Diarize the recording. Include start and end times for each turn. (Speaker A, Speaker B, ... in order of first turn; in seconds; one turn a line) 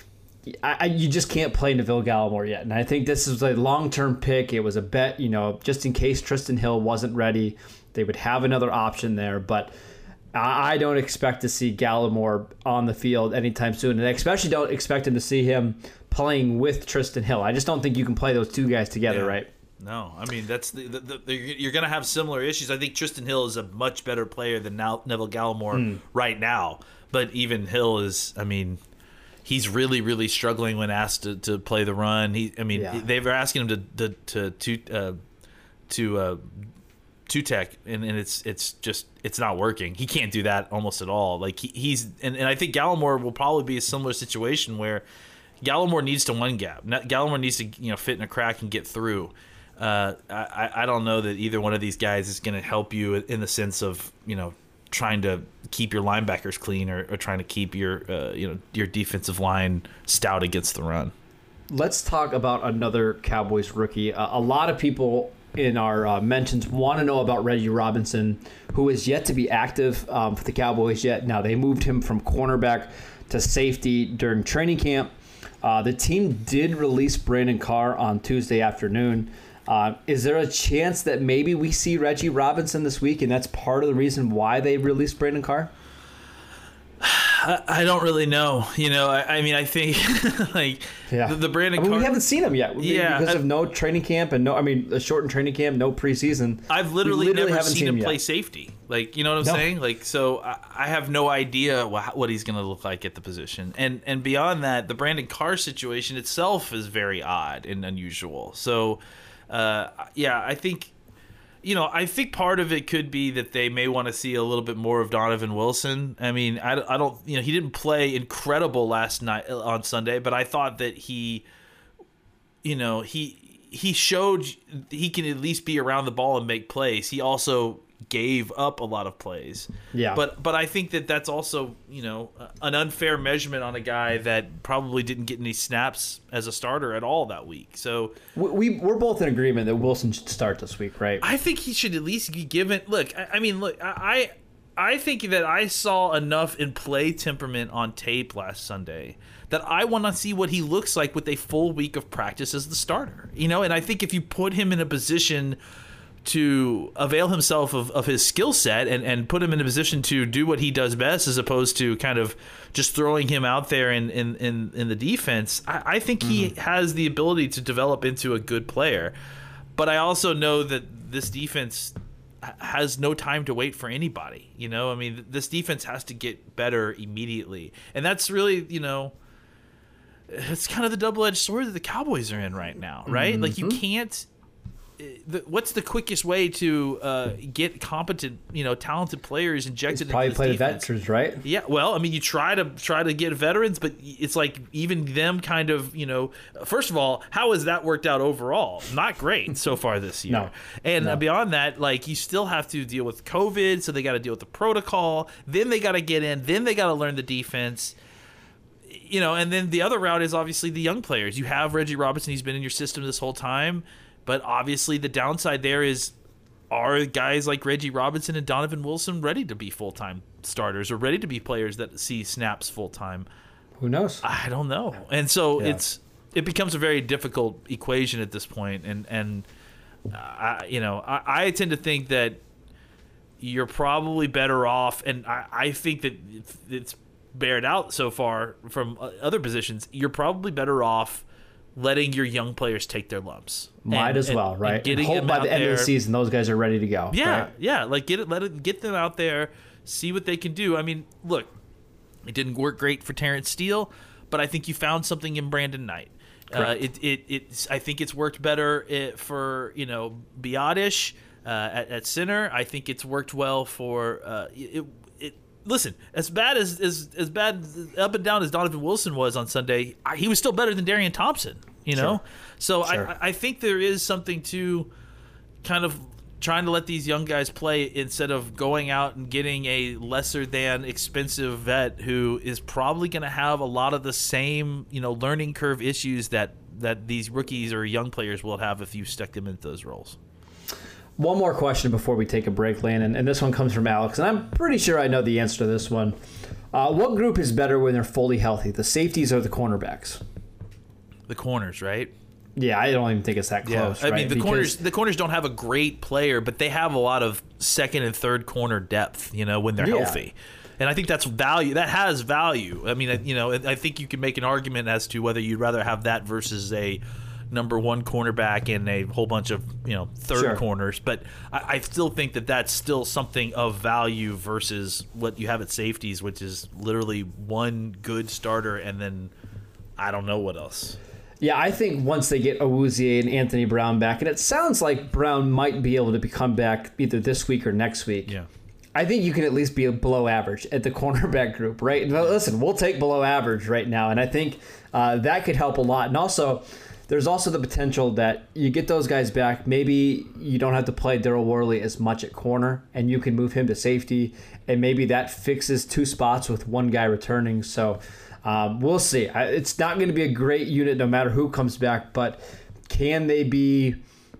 Speaker A: 0.5-9.7
Speaker A: 10.3-19.5
Speaker B: 19.1-28.8
Speaker A: 25.7-26.0
Speaker B: 29.4-35.2
Speaker A: 32.7-33.0
Speaker B: 35.9-36.5
Speaker B: 37.3-45.0
Speaker B: 45.6-61.1
Speaker A: 61.7-75.1
Speaker A: 75.6-85.7
Speaker B: 87.0-92.2
Speaker A: 91.1-98.2
Speaker B: 92.8-93.4
Speaker B: 96.7-110.9
Speaker A: 99.4-99.7
Speaker B: 111.6-121.4
Speaker B: 122.6-138.1
Speaker A: 129.9-130.2
Speaker A: 138.3-141.2
Speaker B: 141.2-155.6
Speaker B: 156.2-169.1
Speaker A: 166.2-166.5
Speaker B: 169.8-179.1
Speaker B: 180.3-184.3
Speaker A: 183.1-183.8
Speaker B: 185.0-190.8
Speaker A: 189.9-191.4
Speaker B: 191.4-207.9
Speaker A: 200.3-201.2
Speaker B: 208.9-216.1
Speaker B: 216.7-223.2
Speaker A: 223.8-224.2
Speaker B: 224.2-229.4
Speaker B: 230.1-232.4
Speaker B: 233.4-241.2
Speaker B: 241.8-245.9
Speaker A: 243.8-247.5
Speaker B: 247.1-251.5
Speaker B: 252.2-274.9
Speaker A: 256.5-256.8
Speaker A: 271.9-272.2
Speaker A: 272.8-273.1
Speaker B: 275.6-290.2
Speaker A: 291.2-296.1
Speaker A: 296.7-300.2
Speaker B: 301.3-302.1
Speaker A: 302.6-304.8
Speaker B: 303.6-329.3
Speaker A: 309.8-310.2
Speaker A: 320.3-320.6
Speaker B: 330.0-331.0
Speaker A: 331.4-338.3
Speaker A: 338.9-364.0